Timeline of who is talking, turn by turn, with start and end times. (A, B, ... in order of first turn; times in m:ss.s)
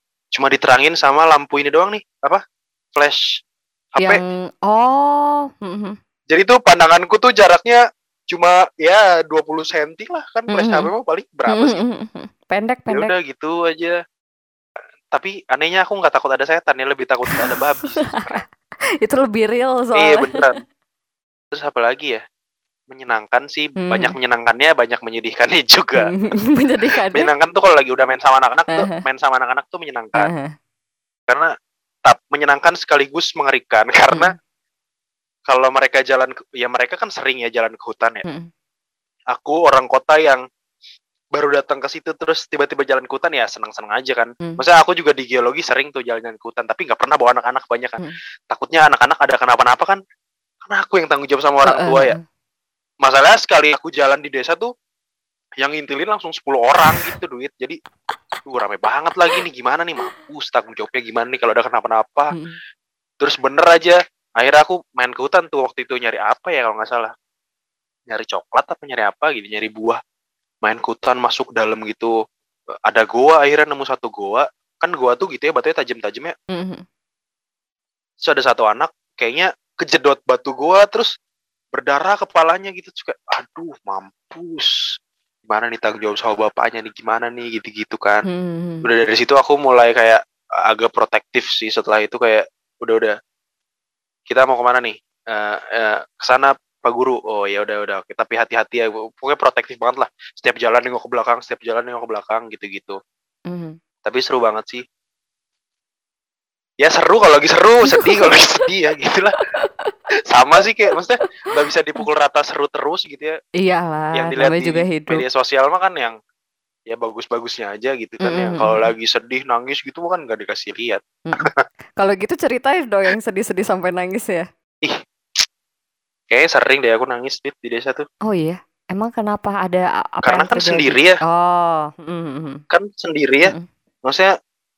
0:00.3-0:02.4 A
0:02.9-0:03.4 A
0:04.0-0:06.0 B
0:06.3-0:11.8 A
0:10.5-0:10.9 B
0:11.5-0:13.1 B
0:12.9-0:14.0 A
0:15.1-0:18.4 A
0:19.0-0:20.4 B
0:20.0-0:20.6 A
0:21.5-0:22.2 A
0:22.9-0:26.1 A
0:23.8-0:24.1 B
0:26.0-0:27.3 B
0:27.1-0:30.3 A
0:28.7-0:29.0 B
0:30.2-0:30.5 B
0:32.0-0:34.3 A
0:35.5-0:38.2 A
0:39.3-0:40.4 A
0:41.3-0:50.0 A
0:50.6-0:52.2 A
0:51.6-0:52.2 B
0:53.0-0:54.7 A
0:55.6-0:57.8 A
0:56.8-0:57.1 B
0:58.4-1:02.3 A
1:02.3-1:02.6 B
1:03.2-1:07.1 A
1:08.1-1:10.0 A
1:10.6-1:12.1 A
1:12.8-1:16.3 A
1:16.5-1:16.8 B
1:18.2-1:21.1 A
1:21.7-1:24.9 A
1:25.5-1:28.2 A
1:28.2-1:28.9 B
1:28.8-1:33.1 A
1:34.3-1:43.0 A
1:43.5-1:43.8 B
1:44.0-1:44.8 A
1:46.8-1:49.4 A
1:47.9-1:48.3 B
1:49.6-1:50.0 B
1:50.3-1:53.3 A
1:53.6-1:55.2 B
1:54.1-1:56.2 A
1:56.9-2:01.6 A
1:58.2-1:58.9 B
2:01.3-2:04.5 B
2:04.8-2:05.4 A
2:06.3-2:08.0 A
2:08.2-2:12.6 B
2:10.2-2:11.2 A
2:12.7-2:13.5 A
2:14.0-2:14.3 A